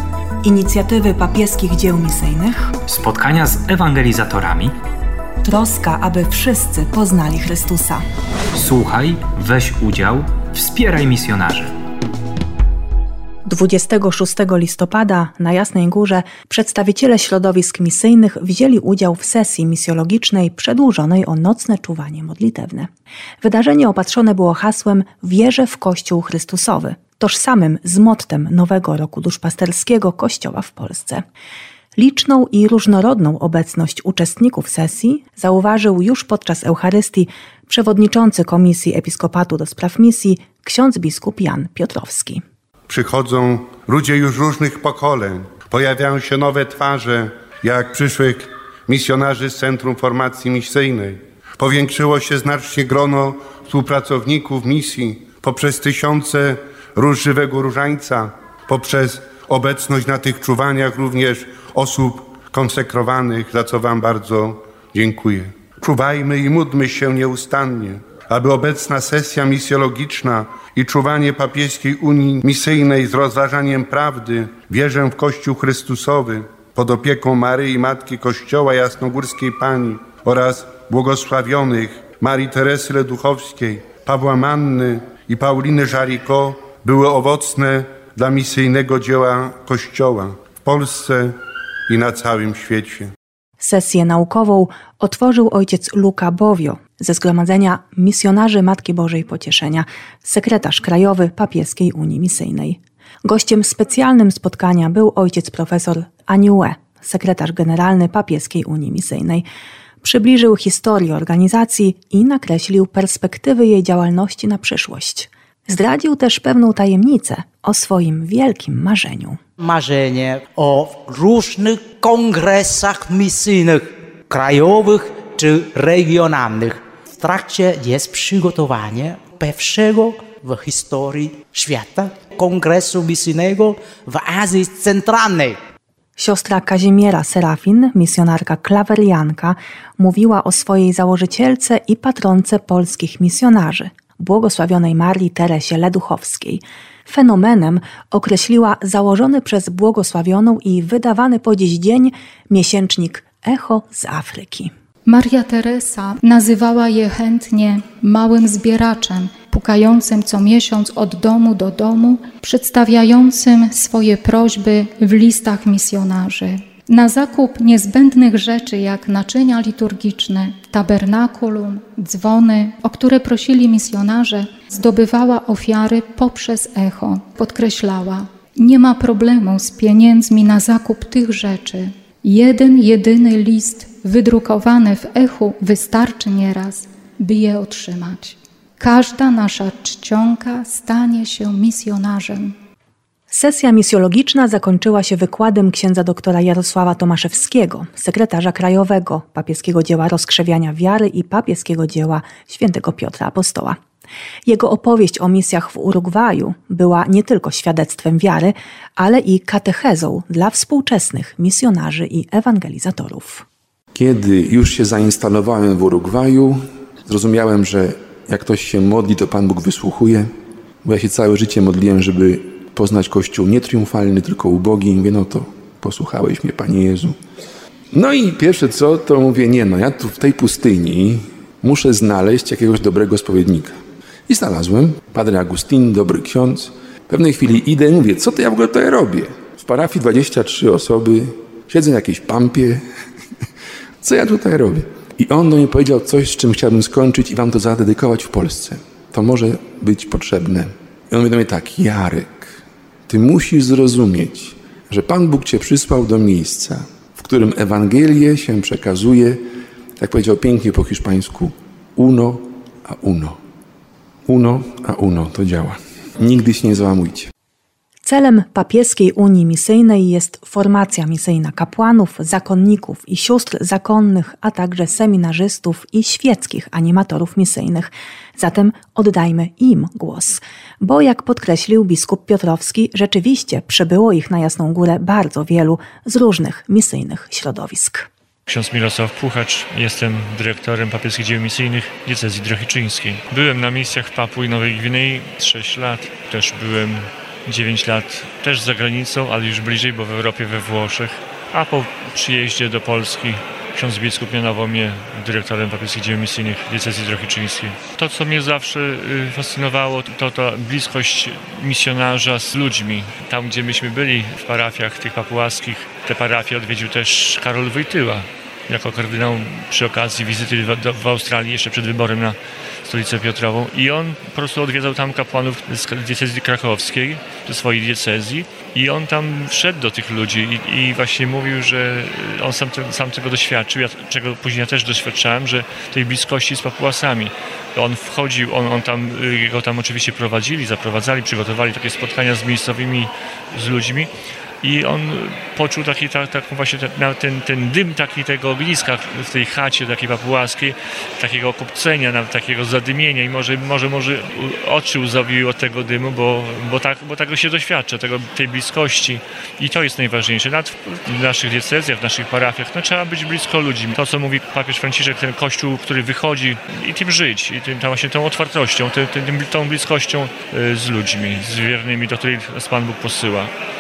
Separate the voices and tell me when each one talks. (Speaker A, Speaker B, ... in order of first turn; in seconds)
Speaker A: 0.4-2.7, 5.4-8.0, 13.5-22.9, 23.4-31.2, 32.0-42.4, 93.6-109.5, 110.0-119.4, 136.2-154.7, 193.3-203.8, 204.5-213.4, 268.1-288.1
Speaker B: 2.9-4.7, 8.6-11.7
Speaker C: 42.9-91.3, 91.9-93.1
Speaker D: 119.6-135.6
Speaker E: 155.1-192.5
Speaker F: 213.9-220.3, 220.8-227.2, 227.9-242.8, 244.0-252.5, 253.1-259.4, 260.0-263.4, 264.3-267.3
Speaker G: 288.5-344.1, 344.6-373.5